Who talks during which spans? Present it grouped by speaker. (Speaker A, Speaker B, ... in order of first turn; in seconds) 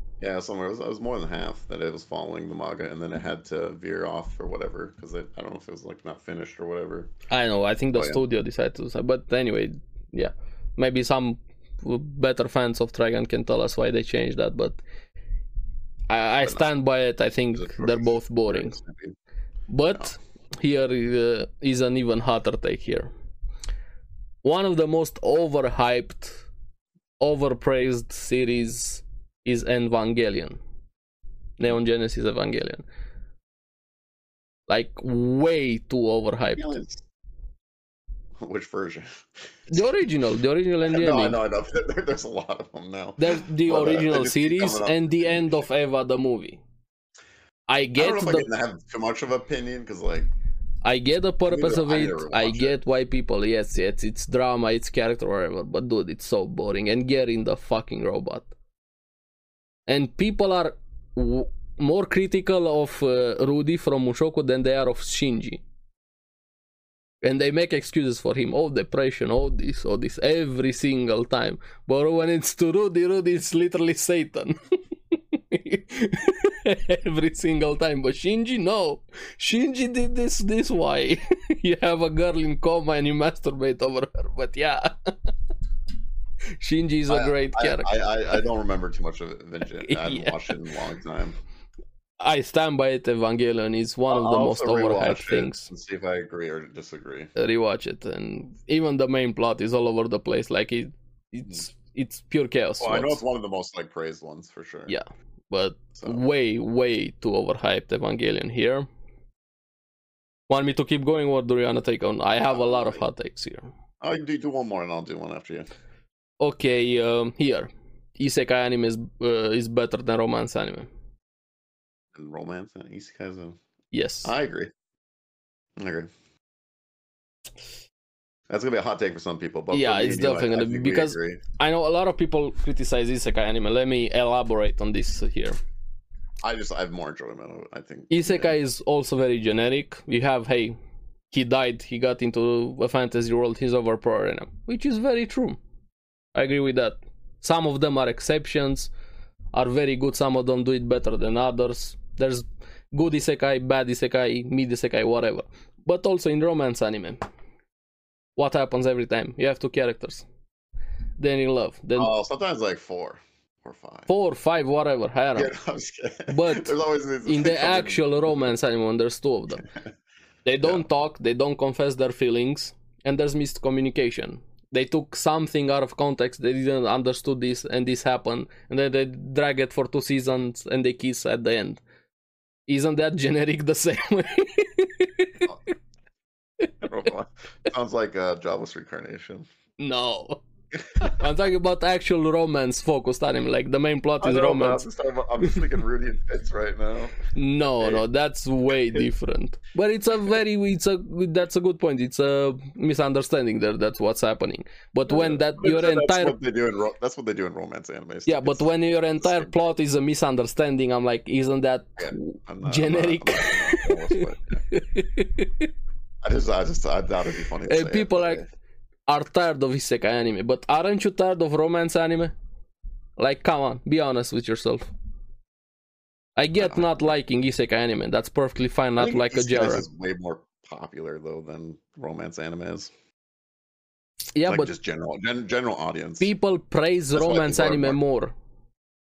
Speaker A: 0.2-7.1, 7.9-8.2, 17.5-19.1, 36.5-37.0, 38.4-39.1, 40.8-45.5, 48.0-50.3, 51.5-52.8, 87.1-91.4, 94.1-97.3, 102.8-104.9, 106.0-106.2, 112.5-113.0, 114.0-115.7, 122.1-123.6, 124.2-124.7, 125.8-126.1, 128.5-131.4, 136.4-138.5, 161.9-164.1, 165.3-168.4, 186.8-189.5, 194.2-197.2, 197.8-198.0, 205.1-209.7, 212.0-214.6, 216.2-218.5, 226.6-226.9, 229.0-232.9, 234.4-236.3, 237.1-238.0
Speaker B: 7.3-14.8, 16.1-18.8, 19.7-23.1, 24.4-26.4, 27.2-30.6, 31.6-32.8, 34.7-36.8, 39.7-41.4, 43.2-46.6, 47.7-48.5, 50.8-58.5, 59.9-65.6, 67.2-74.6, 75.1-85.2, 86.6-87.9, 89.8-90.5, 92.2-95.7, 97.3-103.2, 104.9-108.9, 110.5-113.7, 116.4-120.9, 123.9-124.3, 129.7-135.6, 138.1-140.7, 141.3-145.6, 146.3-148.9, 149.5-157.2, 158.4-160.2, 161.2-162.1, 164.1-165.5, 166.3-166.7, 167.2-169.7, 170.4-181.8, 182.7-185.5, 189.8-190.4, 191.0-194.8, 197.3-206.3, 208.2-215.7, 217.6-218.4, 219.1-222.3, 223.2-224.9, 226.4-229.8, 234.3-234.7, 236.2-238.3